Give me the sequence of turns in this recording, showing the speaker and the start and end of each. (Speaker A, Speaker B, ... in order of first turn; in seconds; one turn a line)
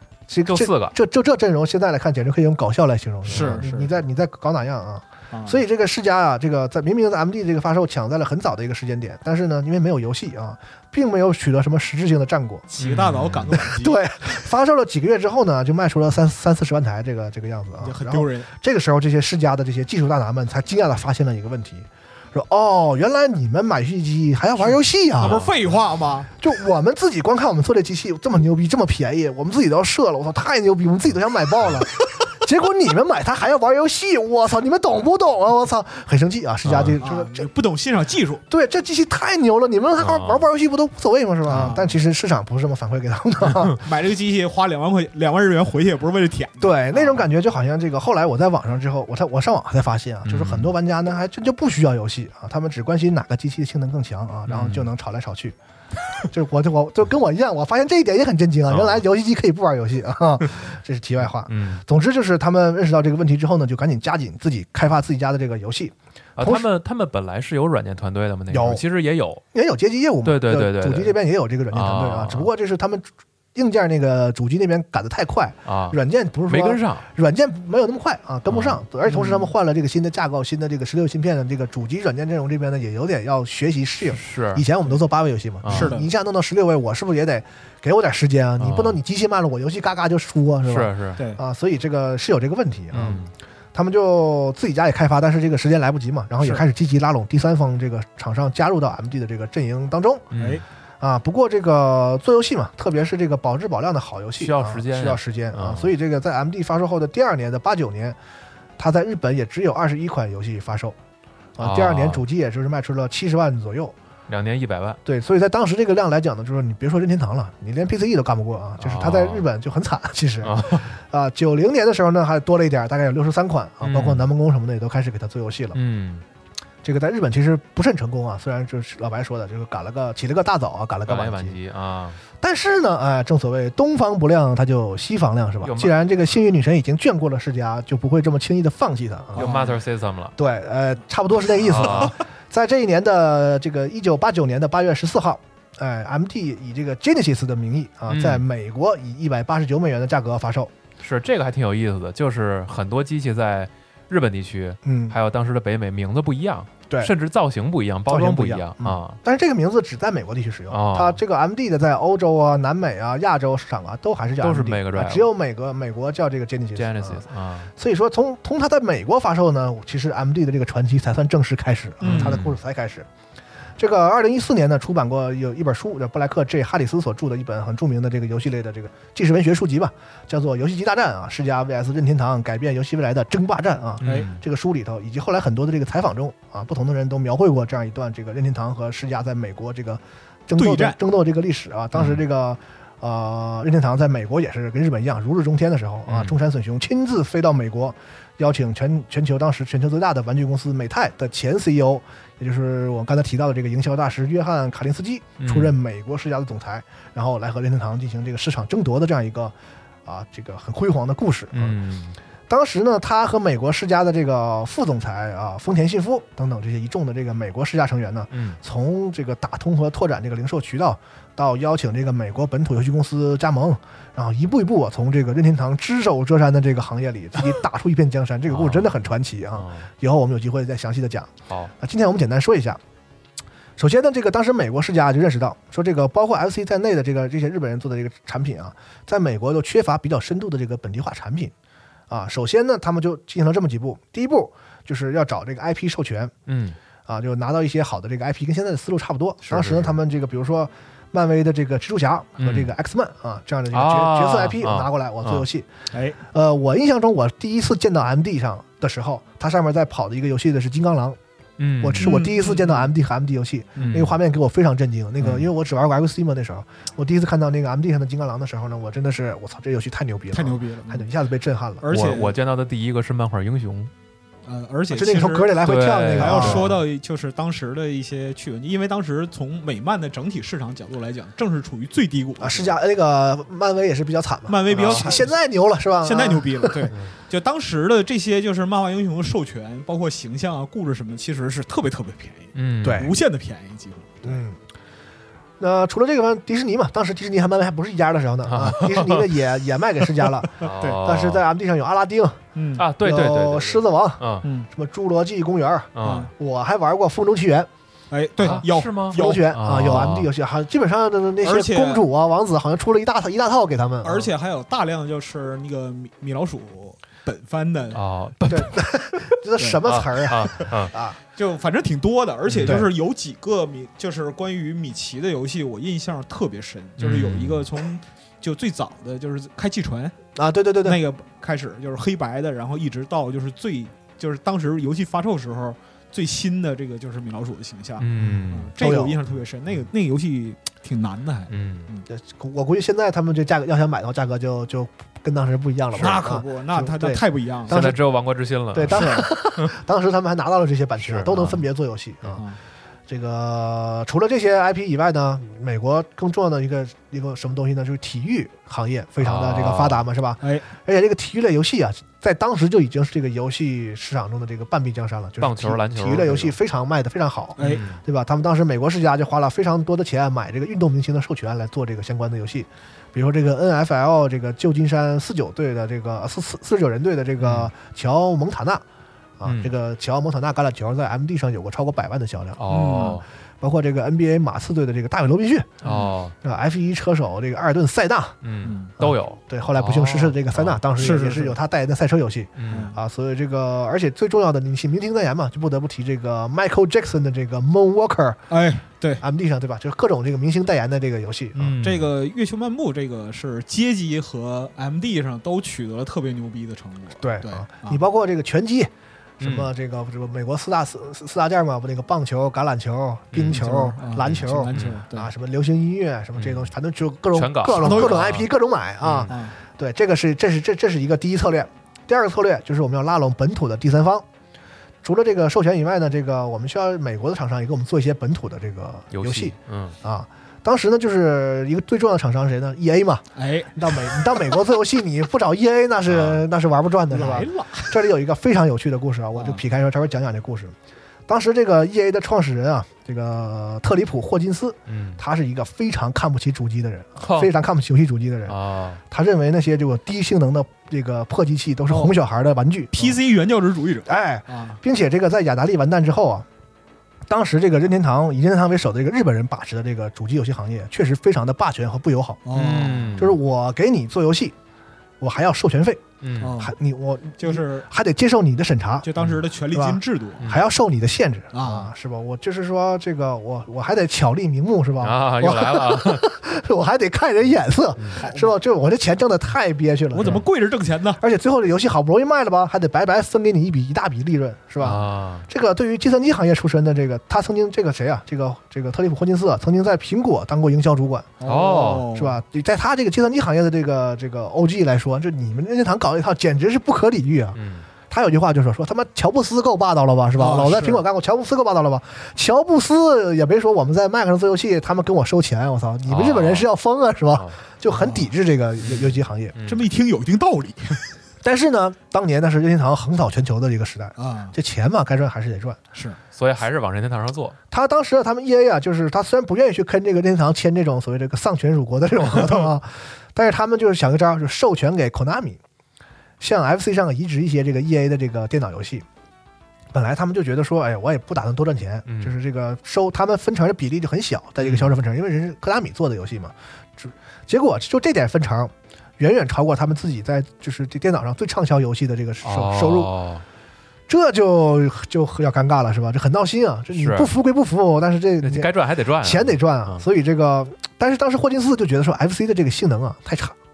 Speaker A: 0.3-12.7
Speaker B: 0.5-0.9
Speaker C: 3.2-4.0
Speaker B: 3.3-3.7
Speaker C: 5.3-5.6
Speaker C: 12.7-14.0
Speaker B: 12.8-13.6
Speaker A: 13.5-25.5
Speaker C: 17.8-18.5
Speaker C: 24.6-26.3
Speaker A: 26.4-37.5
Speaker B: 36.6-37.0
Speaker C: 37.0-38.4
Speaker A: 38.5-43.8
Speaker B: 40.0-40.5
Speaker C: 41.5-42.0
Speaker C: 43.8-47.3
Speaker A: 46.6-55.5
Speaker B: 50.2-50.7
Speaker B: 54.5-54.9
Speaker A: 56.3-66.7
Speaker B: 58.7-59.0
Speaker B: 61.5-61.8
Speaker B: 66.4-69.4
Speaker A: 68.5-68.8
Speaker A: 69.5-93.2
Speaker B: 70.2-71.2
Speaker B: 71.7-72.5
Speaker B: 75.7-77.0
Speaker B: 78.5-78.8
Speaker C: 79.1-79.5
Speaker B: 84.1-84.6
Speaker B: 85.6-86.0
Speaker C: 85.7-86.1
Speaker B: 88.6-89.0
Speaker B: 90.7-91.2
Speaker B: 92.9-93.3
Speaker A: 93.7-100.3
Speaker B: 100.3-100.6
Speaker C: 100.4-100.6
Speaker A: 101.0-108.2
Speaker B: 104.4-105.9
Speaker A: 108.8-111.0
Speaker A: 111.6-113.9
Speaker B: 111.6-112.2
Speaker B: 114.3-115.0
Speaker A: 115.0-125.8
Speaker B: 118.8-119.5
Speaker B: 120.4-120.9
Speaker B: 123.8-124.2
Speaker B: 125.7-126.2
Speaker A: 126.8-131.6
Speaker B: 131.1-132.2
Speaker A: 132.4-139.5
Speaker B: 135.6-135.9
Speaker B: 139.3-140.3
Speaker C: 139.4-139.8
Speaker A: 140.4-150.7
Speaker B: 141.5-142.2
Speaker B: 148.1-148.4
Speaker B: 151.0-159.2
Speaker A: 154.8-155.2
Speaker A: 158.1-167.2
Speaker B: 160.7-161.2
Speaker B: 164.4-165.3
Speaker B: 166.8-167.7
Speaker A: 167.8-173.1
Speaker C: 172.0-172.4
Speaker B: 172.0-172.6
Speaker A: 173.8-209.5
Speaker B: 184.0-184.4
Speaker C: 184.0-184.3
Speaker C: 190.6-191.0
Speaker B: 191.9-192.2
Speaker B: 196.1-196.4
Speaker B: 205.4-205.8
Speaker A: 210.1-211.8
Speaker B: 211.5-212.2
Speaker A: 212.5-232.8
Speaker B: 218.3-218.6
Speaker B: 228.5-229.0
Speaker B: 229.6-229.9
Speaker A: 233.8-241.5
Speaker A: 242.1-246.3
Speaker B: 246.5-246.8
Speaker A: 247.1-255.7
Speaker B: 249.4-249.9
Speaker B: 252.4-252.7
Speaker B: 253.7-255.5
Speaker C: 255.9-256.2
Speaker A: 256.3-261.2
Speaker B: 261.6-262.1
Speaker A: 261.8-271.9
Speaker C: 262.0-262.9
Speaker C: 263.8-264.1
Speaker B: 263.8-264.2
Speaker C: 270.3-271.1
Speaker C: 271.8-272.4
Speaker B: 271.9-273.9
Speaker C: 274.4-282.8
Speaker A: 274.9-276.7
Speaker B: 275.6-276.8
Speaker A: 282.4-286.9
Speaker C: 284.5-285.4
Speaker B: 284.7-285.2
Speaker C: 286.0-294.4
Speaker B: 292.6-293.1
Speaker A: 292.8-293.1
Speaker A: 294.2-294.6
Speaker A: 295.6-302.4
Speaker B: 298.5-299.3
Speaker B: 300.6-301.4
Speaker C: 300.6-301.0
Speaker C: 302.6-302.9
Speaker B: 302.8-304.5
Speaker A: 303.0-307.7
Speaker C: 304.4-304.7
Speaker B: 305.9-306.3
Speaker C: 306.0-306.3
Speaker C: 308.1-310.1
Speaker B: 308.4-310.3
Speaker A: 308.4-314.3
Speaker C: 311.4-312.0
Speaker C: 314.0-318.0
Speaker B: 317.9-318.8
Speaker A: 318.5-321.2
Speaker B: 319.9-320.9
Speaker C: 321.4-330.1
Speaker B: 322.5-322.8
Speaker A: 322.6-322.9
Speaker B: 327.0-327.7
Speaker A: 330.4-331.0
Speaker C: 330.8-342.1
Speaker B: 338.0-338.8
Speaker A: 338.2-339.2
Speaker B: 341.5-341.9
Speaker A: 342.1-348.0
Speaker C: 345.9-347.9
Speaker B: 347.7-349.7
Speaker A: 348.7-352.4
Speaker C: 348.9-349.3
Speaker B: 351.0-351.6
Speaker A: 353.1-378.8
Speaker B: 359.2-360.0
Speaker C: 360.4-360.7
Speaker B: 365.4-366.6
Speaker C: 367.6-367.9
Speaker B: 367.6-368.0
Speaker B: 377.4-377.7
Speaker A: 379.4-382.6
Speaker B: 379.4-379.7
Speaker B: 382.6-383.2
Speaker C: 382.7-383.2
Speaker A: 383.6-385.7
Speaker B: 385.8-386.3
Speaker C: 385.8-386.1
Speaker A: 386.4-388.4
Speaker B: 388.4-390.8
Speaker C: 388.6-388.9
Speaker A: 389.0-398.4
Speaker C: 391.0-391.6
Speaker B: 392.6-392.9
Speaker C: 392.7-393.0
Speaker C: 398.5-399.2
Speaker A: 399.2-401.8
Speaker B: 401.6-402.1
Speaker C: 401.8-408.0
Speaker A: 407.2-424.2
Speaker B: 409.4-409.7
Speaker B: 413.3-413.6
Speaker C: 413.5-415.3
Speaker B: 414.3-415.0
Speaker B: 416.4-416.7
Speaker B: 417.3-418.5
Speaker C: 417.8-418.3
Speaker B: 419.0-419.3
Speaker C: 419.3-419.6
Speaker A: 425.0-440.7
Speaker B: 429.1-430.0
Speaker C: 433.4-434.4
Speaker B: 436.1-436.4
Speaker C: 437.1-438.0
Speaker C: 439.4-439.6
Speaker A: 441.3-448.6
Speaker B: 444.9-445.2
Speaker B: 447.2-447.5
Speaker B: 448.5-449.0
Speaker A: 449.1-453.2
Speaker C: 451.9-452.1
Speaker C: 452.9-454.8
Speaker A: 454.1-456.5
Speaker A: 457.3-462.4
Speaker C: 462.4-463.2
Speaker B: 462.5-463.4
Speaker A: 463.2-464.6
Speaker A: 465.2-466.0
Speaker B: 466.2-466.6
Speaker C: 466.4-466.7
Speaker A: 466.6-469.1
Speaker C: 467.4-467.9
Speaker C: 469.0-470.5
Speaker A: 469.7-480.4
Speaker C: 471.5-471.9
Speaker B: 475.0-476.3
Speaker C: 478.2-478.6
Speaker C: 480.1-481.2
Speaker A: 481.2-491.3
Speaker B: 484.8-485.5
Speaker C: 491.4-492.4
Speaker B: 491.4-492.1
Speaker A: 492.1-497.6
Speaker B: 497.6-497.9
Speaker A: 498.1-509.5
Speaker C: 500.4-501.0
Speaker B: 506.1-506.7
Speaker C: 507.9-508.3
Speaker C: 508.9-509.1
Speaker B: 509.6-509.9
Speaker C: 509.7-511.1
Speaker A: 511.4-515.8
Speaker C: 514.2-514.5
Speaker C: 515.9-516.2
Speaker B: 516.3-517.6
Speaker A: 517.7-525.6
Speaker A: 526.4-529.0
Speaker A: 529.9-543.1
Speaker B: 532.1-532.3
Speaker B: 534.6-534.9
Speaker B: 542.4-543.4
Speaker A: 544.1-553.5
Speaker B: 547.0-547.3
Speaker B: 548.4-550.0